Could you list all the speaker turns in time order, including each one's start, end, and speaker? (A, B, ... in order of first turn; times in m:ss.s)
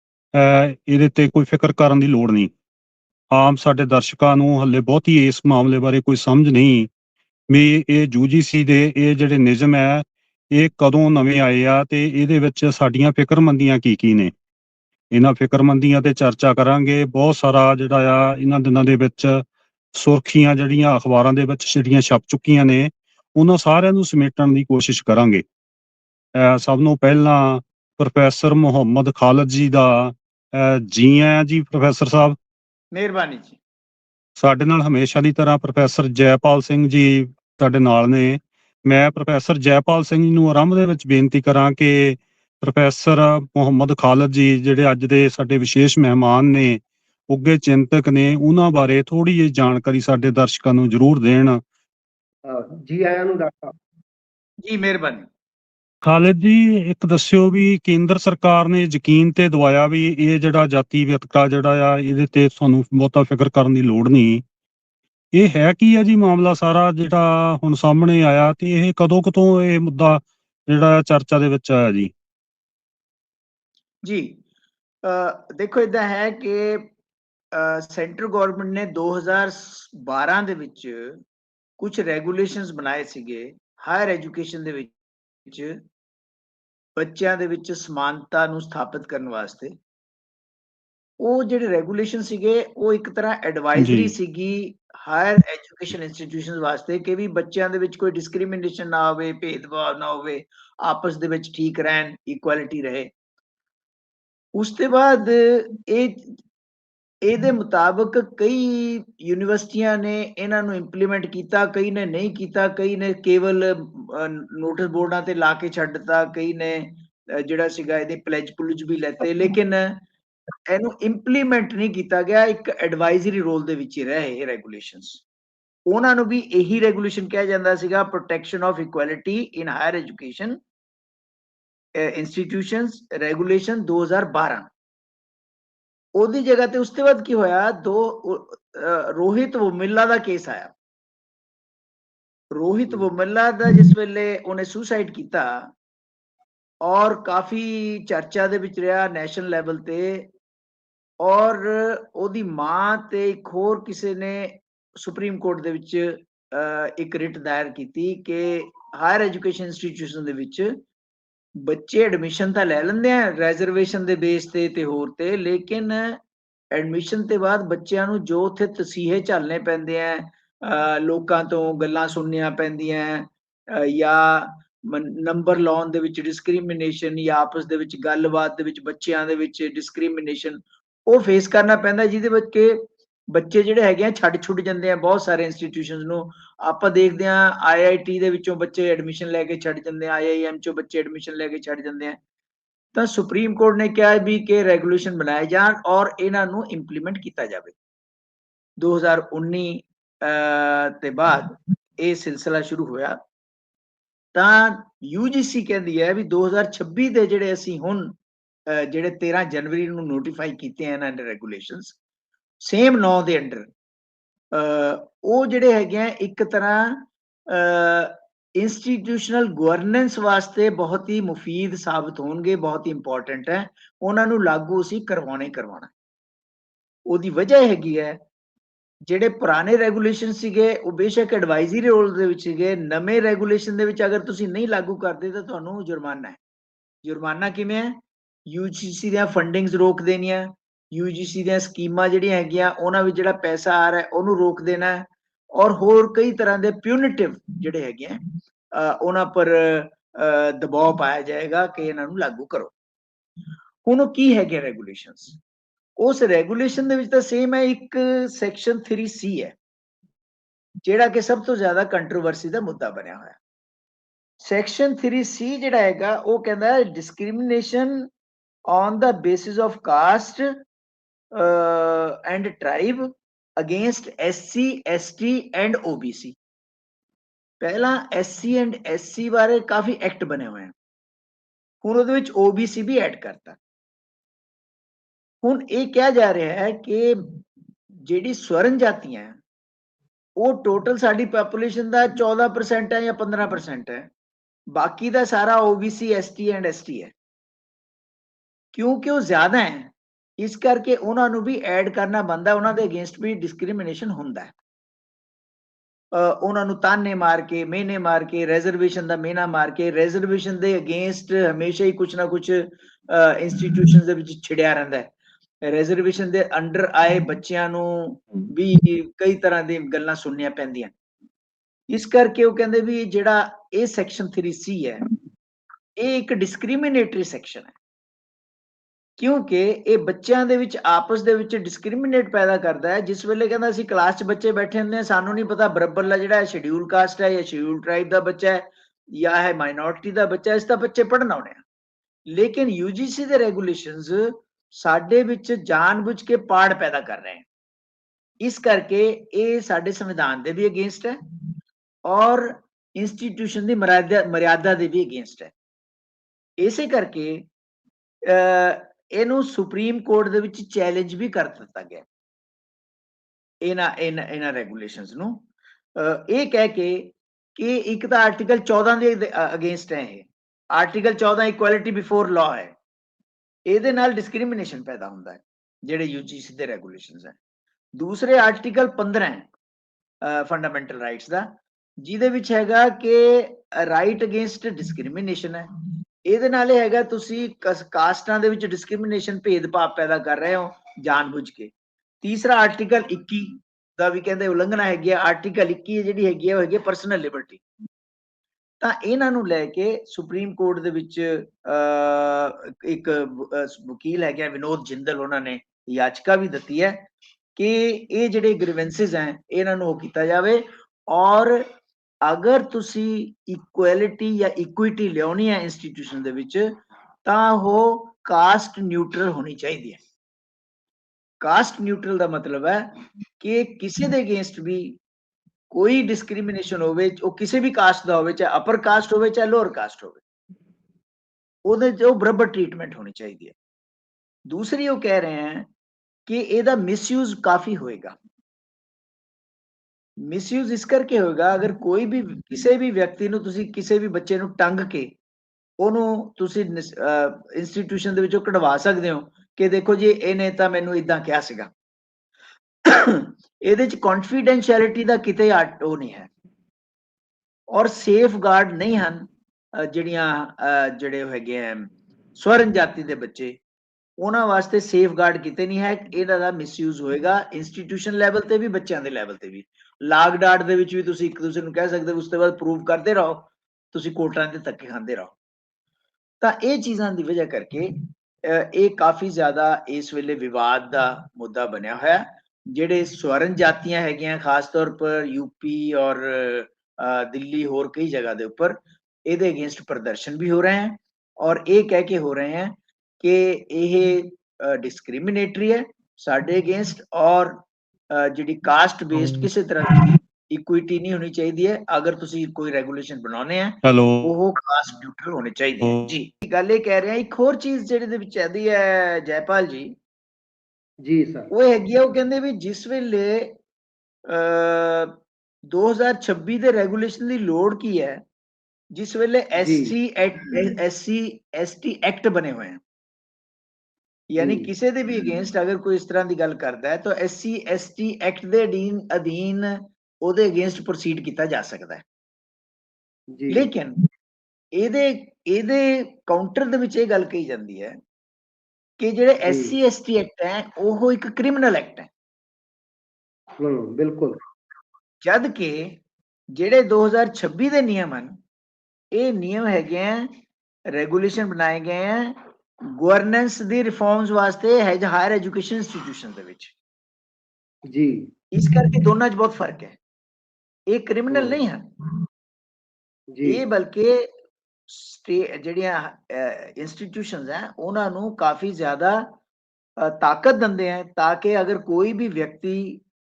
0:00.3-0:02.5 A
0:03.3-0:06.9 A
0:07.5-0:14.3 A
0:15.1-0:25.4 A
0:26.4-0:32.4 A
0:32.9-0:33.6 B
0:34.4-0:51.6 A
0:52.4-0:53.7 C
0:54.6-0:55.3 B
0:56.0-1:04.4 A
1:05.4-1:12.1 A
1:14.0-1:14.4 B
1:15.0-1:16.9 B
1:17.5-1:21.2 B
1:21.8-1:25.0 B
1:25.5-1:25.8 B
1:27.0-1:29.8 B
1:31.2-1:43.1 B
1:33.8-1:34.1 A
1:44.6-1:46.3 B
1:47.2-2:00.0 B
2:00.7-2:05.2 B
2:05.9-2:10.6 B
2:12.0-2:14.7 B
2:16.2-2:20.7 B
2:22.5-2:25.7 B
2:26.8-2:30.3 B
2:31.2-2:40.7 B
2:41.7-2:46.2 B
2:46.7-3:12.2 B
3:13.0-3:17.8 B
3:18.8-3:23.2 B
3:24.3-3:28.2 B
3:28.7-3:32.0 B
3:32.6-3:33.7 B
3:34.5-3:45.9 B
3:47.1-3:48.2 B
3:49.1-3:56.4 B
3:57.0-4:08.2 B
4:08.8-4:12.7 B
4:13.8-4:15.4 B
4:16.0-4:19.6 B
4:20.8-4:23.4 B
4:24.4-4:28.0 B
4:28.7-4:30.5 B
4:31.3-4:36.4 B
4:37.6-4:40.7 B
4:41.8-4:43.6 B
4:45.4-4:47.4 B
4:48.0-4:49.4 B
4:50.4-4:54.1 B
4:54.8-4:57.1 B
4:58.7-5:04.6 B
5:06.1-5:15.1 B
5:15.6-5:20.9 B
5:21.9-5:25.1 B
5:26.0-5:27.7 B
5:29.2-5:41.6 B
5:42.3-5:47.4 B
5:48.4-5:51.2 B
5:52.1-5:55.5 B
5:56.6-5:57.5 B
5:58.3-6:02.1 B
6:03.6-6:12.8 B
6:13.7-6:17.4 B
6:18.0-6:19.5 B
6:20.2-6:25.7 B
6:26.3-6:37.6 B
6:38.8-6:51.6 B
6:52.2-6:56.6 B
6:57.2-7:00.0 B
7:01.4-7:05.0 B
7:05.7-7:10.2 B
7:11.7-7:13.6 B
7:14.5-7:15.7 B
7:16.3-7:18.2 B
7:20.3-7:25.2 B
7:25.8-7:31.7 B
7:32.9-7:36.3 B
7:37.7-7:39.3 B
7:39.9-7:43.6 B
7:44.2-7:55.4 B
7:56.4-8:30.0 B
8:23.8-8:24.3 A
8:25.8-8:26.1 A
8:31.0-8:31.5 C
8:31.5-8:33.6 B
8:34.3-8:38.2 B
8:38.9-8:42.8 B
8:39.6-8:40.0 C
8:44.3-8:52.0 B
8:44.4-8:44.7 C
8:53.4-8:53.7 C
8:53.5-8:54.0 B
8:54.8-8:58.0 B
8:59.0-9:02.1 B
8:59.4-8:59.8 C
9:03.6-9:04.4 C
9:05.2-9:06.0 B
9:06.6-9:08.3 B
9:09.1-9:10.3 B
9:10.9-9:12.4 B
9:13.0-9:16.7 B
9:17.9-9:18.3 C
9:18.5-9:20.0 B
9:20.9-9:21.9 B
9:21.3-9:21.6 C
9:23.3-9:23.6 C
9:23.4-9:24.2 B
9:24.9-9:29.3 B
9:30.0-9:33.0 B